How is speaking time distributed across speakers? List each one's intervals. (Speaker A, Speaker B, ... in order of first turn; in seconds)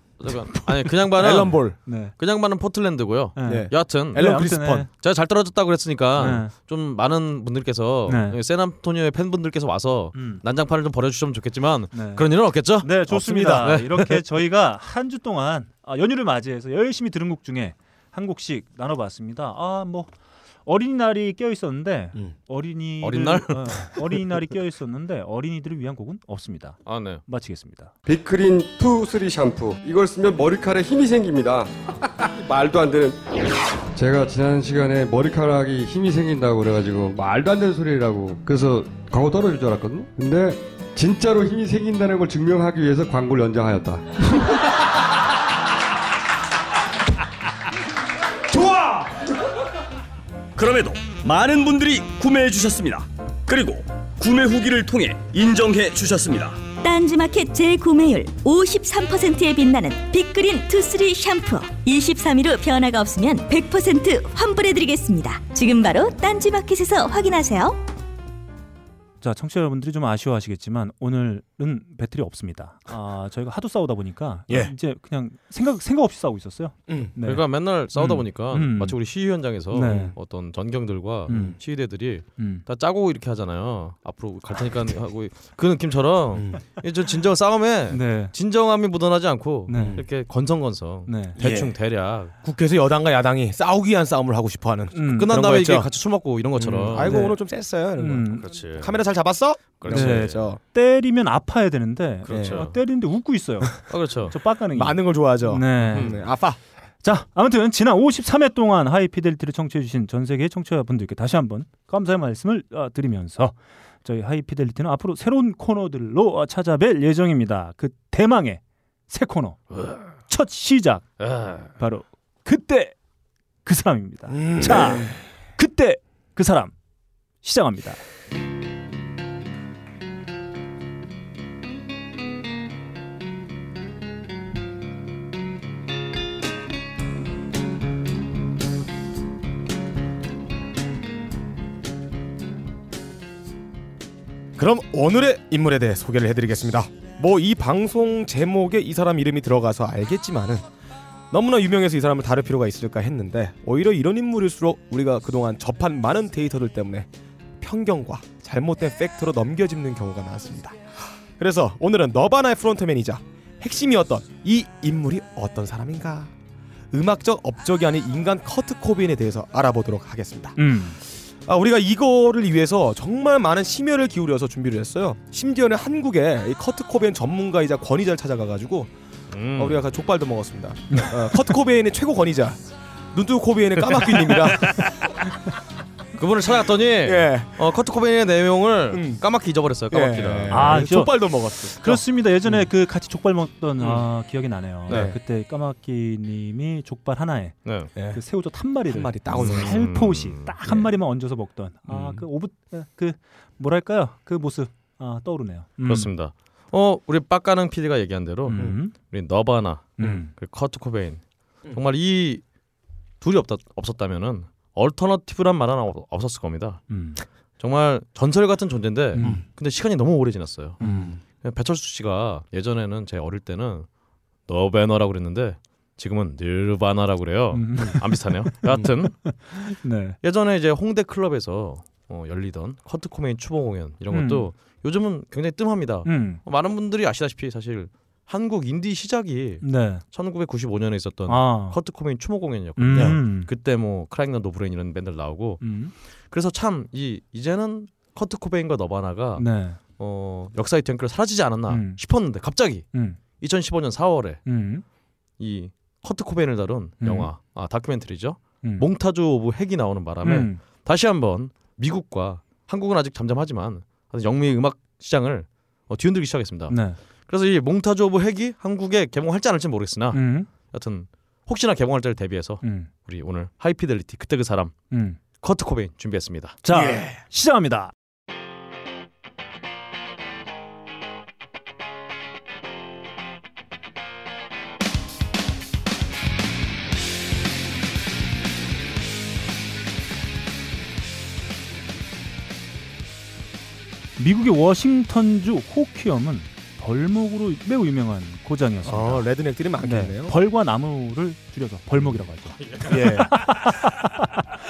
Speaker A: 0.2-4.3, 4.9-14.2, 23.0-24.1, 26.9-27.2, 77.2-92.3, 95.1-97.2, 98.4-99.0, 99.8-100.5, 102.3-102.7, 103.9-104.3, 105.9-106.2, 119.7-120.0, 121.2-121.7, 179.3-179.8, 184.1-184.9, 186.2-190.8, 193.8-194.1, 197.7-197.9, 199.3-200.5, 201.9-202.2, 205.8-212.4, 213.2-216.9, 217.6-220.8, 221.4-223.9, 224.5-229.3, 230.2-245.7, 246.3-252.9, 253.4-254.4, 255.4-274.7, 275.4-276.6, 302.6-303.4
Speaker B: 1.0-1.8, 3.5-4.9, 13.1-13.7, 76.9-77.1, 79.8-80.1, 81.3-81.6, 86.3-86.6, 89.7-90.0, 91.4-91.7, 92.4-95.9, 96.6-100.6, 102.3-102.7, 104.7-106.6, 124.3-125.2, 144.6-150.6, 151.3-157.1, 157.6-160.8, 161.4-166.3, 166.9-170.6, 171.4-178.9, 179.6-182.6, 183.1-184.9, 187.0-187.6, 188.9-189.2, 189.9-192.7, 194.9-195.2, 197.9-198.2, 198.8-199.8, 220.8-221.2, 242.9-243.2, 276.7-277.2, 298.8-300.4, 302.9-303.4
Speaker C: 1.9-2.1, 3.4-4.9, 6.2-6.5, 8.1-8.4, 10.1-10.4, 11.9-20.1, 20.6-27.9, 69.2-79.0, 79.7-80.1, 81.3-81.6, 82.4-82.6, 87.9-88.3, 89.7-90.0, 91.1-91.4, 94.9-95.3, 97.0-97.3, 98.0-98.5, 99.9-106.2, 107.0-119.6, 120.3-121.1, 121.8-123.0, 123.6-126.7, 127.4-128.0, 170.6-171.0, 190.5-206.1, 208.4-208.9, 210.0-210.3, 216.9-217.2, 219.1-219.4, 220.8-221.1, 227.5-230.2, 234.1-234.5, 236.0-236.4, 239.6-240.0, 241.3-241.8, 242.8-243.5, 245.6-245.9, 249.4-249.8, 251.7-252.0, 252.9-253.2, 254.4-254.8, 257.0-257.3, 260.2-260.6, 266.7-267.0, 270.1-270.5, 272.6-272.9, 274.9-275.2, 276.6-277.9, 294.2-299.2, 299.8-304.4
Speaker D: 28.1-33.2, 33.9-44.6
Speaker E: 48.5-49.2, 50.5-56.6
Speaker F: 56.8-67.8